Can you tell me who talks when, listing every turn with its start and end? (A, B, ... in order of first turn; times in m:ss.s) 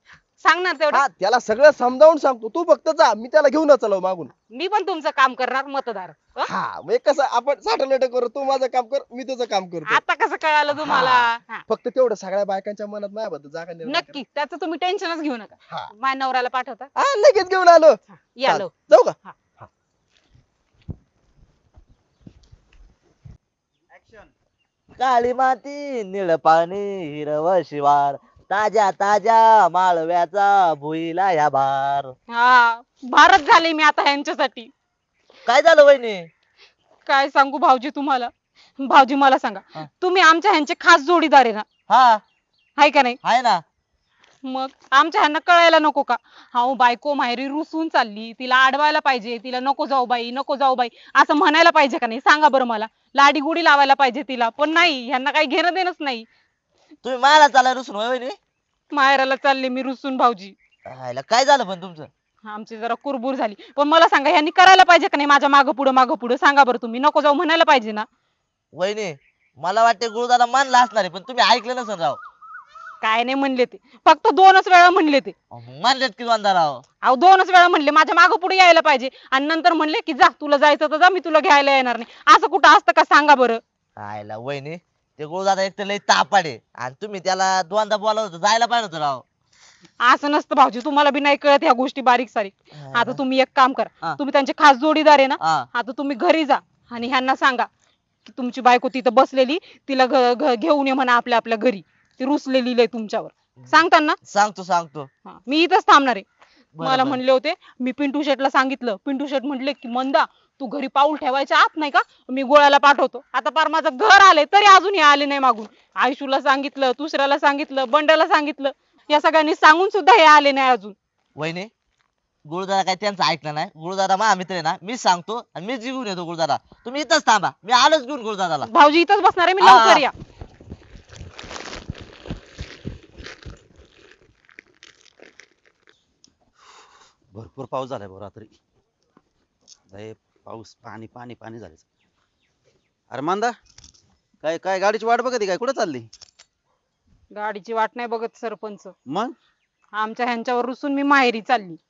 0:00.4-0:01.0 A
0:01.1-0:04.3 B
0:04.5-0:06.5 A
0:06.5-0:10.0 B
0:09.8-0:11.6 A
0:10.8-0:14.2 B
0:13.8-0:16.9 A
0:17.0-0:19.7 B
0:18.1-0:19.3 A
0:25.0-0:32.1 C
0:32.3-0:34.7 A
0:35.4-0:36.3 C
0:37.1-0:41.6 A
0:41.9-0:42.2 C
0:42.8-0:43.2 A
0:43.2-0:43.6 C
0:44.4-0:56.2 A
0:57.0-0:58.4 C
0:58.9-1:00.6 A
1:00.9-1:02.1 C
1:02.4-1:08.1 A
1:08.7-1:12.2 C
1:13.0-1:15.3 A
1:15.5-1:16.8 C
1:17.0-1:23.6 A
1:24.0-1:29.2 C
1:30.0-1:37.7 A
1:32.7-1:33.2 C
1:35.4-1:35.7 C
1:38.3-1:44.2 A
1:44.2-1:45.1 C
1:45.2-1:46.2 A
1:46.8-1:47.2 C
1:46.8-2:01.0 A
2:01.4-2:01.7 C
2:02.4-2:08.7 C
2:08.6-2:10.1 A
2:09.6-2:10.0 C
2:17.3-2:18.5 D
2:19.9-2:21.8 D
2:23.1-2:23.5 D
2:24.4-2:26.1 D
2:27.3-2:28.9 A
2:29.1-2:29.3 D
2:29.9-2:31.8 A